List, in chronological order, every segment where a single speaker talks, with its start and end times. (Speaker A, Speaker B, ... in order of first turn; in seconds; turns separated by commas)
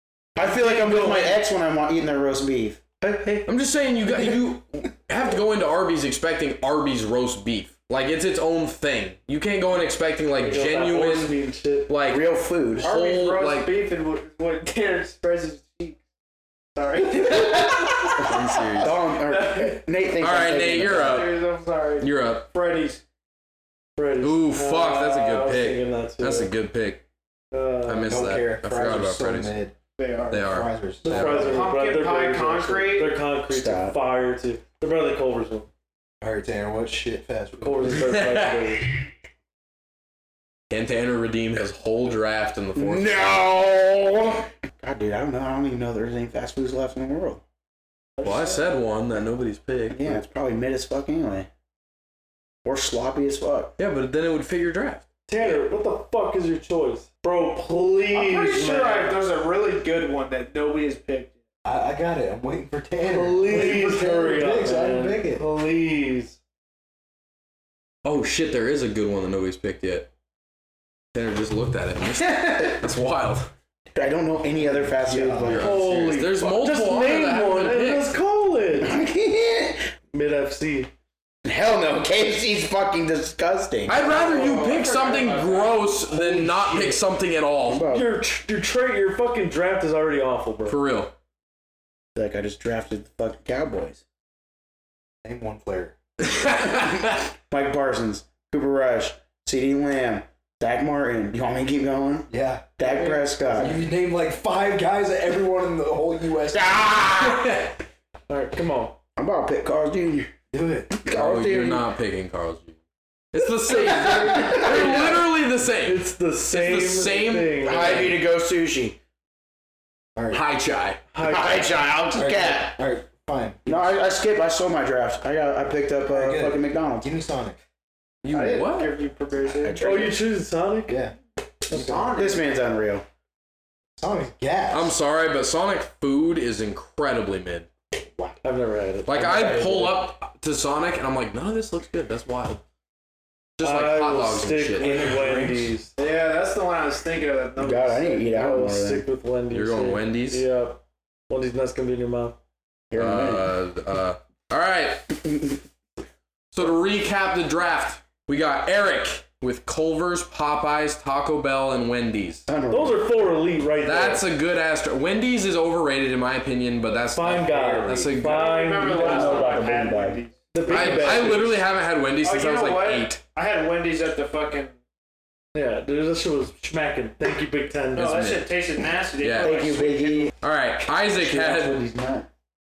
Speaker A: 0.3-3.4, Speaker B: 0.4-1.4, Speaker C: 3.4-13.7, Speaker B: 10.4-11.9, Speaker A: 12.1-12.9, Speaker D: 12.8-16.0, Speaker D: 16.7-18.6, Speaker C: 18.1-18.9, Speaker A: 18.7-21.2, Speaker C: 20.2-21.4, Speaker D: 20.8-23.0, Speaker C: 22.0-22.5, Speaker B: 23.9-26.5, Speaker C: 24.2-27.0, Speaker B: 27.5-28.3, Speaker C: 27.8-29.6, Speaker E: 28.0-29.7, Speaker D: 30.0-30.5, Speaker E: 30.3-31.7, Speaker C: 30.3-30.7, Speaker B: 31.0-35.7, Speaker D: 31.1-33.2, Speaker A: 33.5-34.0, Speaker E: 36.2-38.2, Speaker B: 37.6-38.9, Speaker C: 38.0-38.8, Speaker C: 40.7-43.4, Speaker A: 42.8-47.4, Speaker D: 48.2-48.7, Speaker C: 48.2-50.2, Speaker A: 49.9-51.5, Speaker A: 52.6-53.7, Speaker C: 53.8-55.0, Speaker B: 55.3-59.2, Speaker D: 58.1-61.4, Speaker E: 61.6-65.5, Speaker B: 63.0-66.4, Speaker C: 68.0-70.1, Speaker C: 71.1-73.5, Speaker A: 73.9-75.7, Speaker E: 74.5-75.8, Speaker C: 75.4-78.1, Speaker B: 75.6-79.0, Speaker A: 78.8-79.9, Speaker B: 80.1-80.9, Speaker A: 81.4-84.1, Speaker C: 83.9-87.9, Speaker D: 83.9-86.1, Speaker B: 84.2-84.6, Speaker B: 86.3-87.0, Speaker A: 87.7-88.1, Speaker B: 87.9-90.8, Speaker C: 90.7-91.1, Speaker A: 92.1-94.0, Speaker E: 95.2-95.9, Speaker C: 96.3-97.2, Speaker A: 97.5-103.8, Speaker E: 102.3-107.5, Speaker A: 106.5-107.7, Speaker B: 108.3-109.0, Speaker A: 109.2-110.3, Speaker E: 110.5-110.9, Speaker A: 110.9-111.8, Speaker C: 111.1-112.8, Speaker C: 113.3-118.2, Speaker E: 113.7-115.2, Speaker A: 114.1-115.0, Speaker B: 115.8-118.2, Speaker A: 117.6-119.0, Speaker E: 120.2-120.4, Speaker C: 120.3-121.0, Speaker B: 121.1-121.9, Speaker A: 121.2-122.8, Speaker E: 122.1-123.9, Speaker A: 123.6-127.1, Speaker E: 126.0-127.6, Speaker C: 128.2-128.9, Speaker D: 128.3-129.9, Speaker A: 129.6-130.2, Speaker B: 129.8-131.0, Speaker E: 130.9-131.1, Speaker D: 131.7-132.4, Speaker B: 131.7-132.0, Speaker E: 131.7-132.1, Speaker A: 132.1-133.0, Speaker E: 134.0-134.9, Speaker C: 134.7-137.7, Speaker E: 138.0-138.4, Speaker B: 138.4-139.8, Speaker C: 139.1-142.6, Speaker A: 139.2-139.9, Speaker C: 143.6-145.1, Speaker B: 143.6-145.9, Speaker E: 144.8-145.8, Speaker D: 146.0-148.2, Speaker A: 147.6-149.0, Speaker B: 148.2-152.4, Speaker C: 149.5-150.4, Speaker A: 152.9-153.5, Speaker C: 152.9-155.2, Speaker C: 156.5-162.5, Speaker A: 162.5-163.2, Speaker B: 162.7-164.2, Speaker C: 163.8-168.4, Speaker B: 167.1-169.7, Speaker E: 167.4-168.1, Speaker D: 168.2-171.4, Speaker A: 168.8-170.2, Speaker B: 170.5-171.6, Speaker C: 170.7-173.2, Speaker D: 172.2-174.7, Speaker B: 175.5-178.3, Speaker C: 177.9-178.5, Speaker D: 177.9-180.3, Speaker C: 179.2-179.6, Speaker A: 179.4-180.3, Speaker C: 180.4-181.8, Speaker A: 181.1-182.3